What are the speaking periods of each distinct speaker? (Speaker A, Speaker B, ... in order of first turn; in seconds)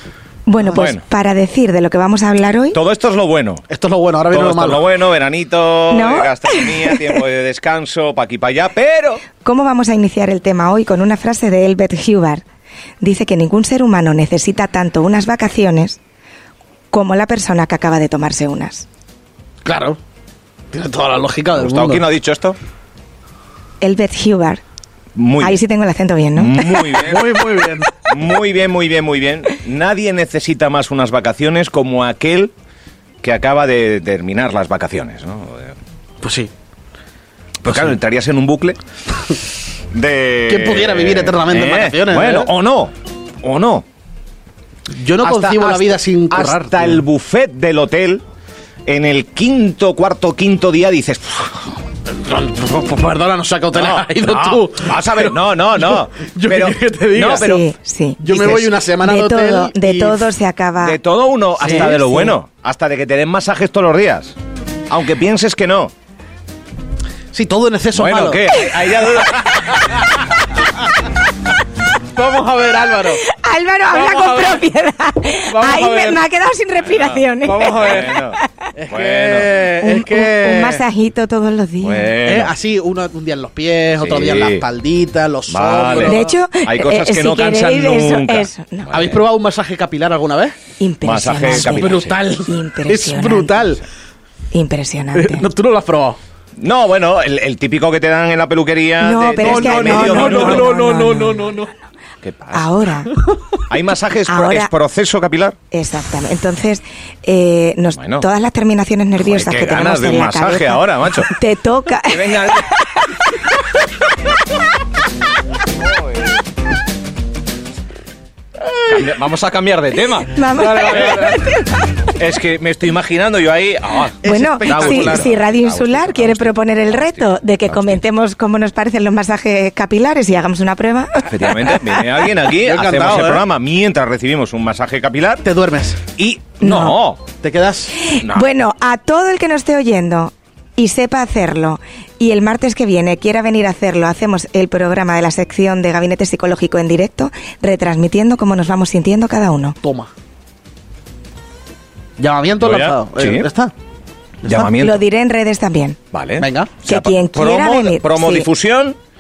Speaker A: 0.5-2.8, 5.9-7.2, 9.4-12.4, 13.0-16.0, 16.9-18.9, 23.8-24.6, 25.4-27.0, 57.3-61.0, 61.6-62.3, 73.2-78.7, 79.8-82.1, 86.0-88.9, 90.8-93.6, 94.5-95.4, 99.0-101.6, 102.5-103.1, 104.3-104.7, 105.7-113.0, 120.3-121.8, 124.2-132.0, 136.6-136.9, 138.0-149.8, 154.5-156.0, 156.9-158.5
Speaker B: 0.7-1.0, 2.7-3.6, 4.3-9.2, 21.6-22.6, 25.1-25.6, 26.4-27.4, 28.1-32.5, 33.2-35.8, 37.6-38.8, 39.9-43.9, 45.2-48.2, 48.9-51.8, 53.7-57.6, 60.8-64.4, 64.9-65.9, 67.9-70.1, 76.9-79.5, 81.8-82.5, 84.0-84.6, 85.5-89.2, 91.0-92.2, 96.6-100.8, 102.2-102.7, 103.7-105.6, 108.0-108.2, 109.2-111.3, 112.0-112.7, 118.7-128.0, 131.2-135.4, 136.2-137.2, 138.1-138.5, 152.6-153.5, 154.4-155.0, 156.1-159.0
Speaker C: 3.7-4.8, 19.6-20.0, 20.7-22.0, 27.0-28.0, 36.2-36.5, 40.5-42.5, 44.9-47.0, 52.1-57.5, 58.2-60.3, 61.6-61.9, 67.3-68.5, 72.1-73.2, 73.9-74.6, 75.5-76.2, 77.4-78.1, 78.8-80.8, 82.2-86.3, 88.9-90.6, 91.4-93.8, 95.1-96.2, 99.4-101.7, 124.2-125.3, 132.5-133.4, 135.4-136.0, 137.4-137.9, 149.8-150.1, 152.2-153.7, 156.4-156.7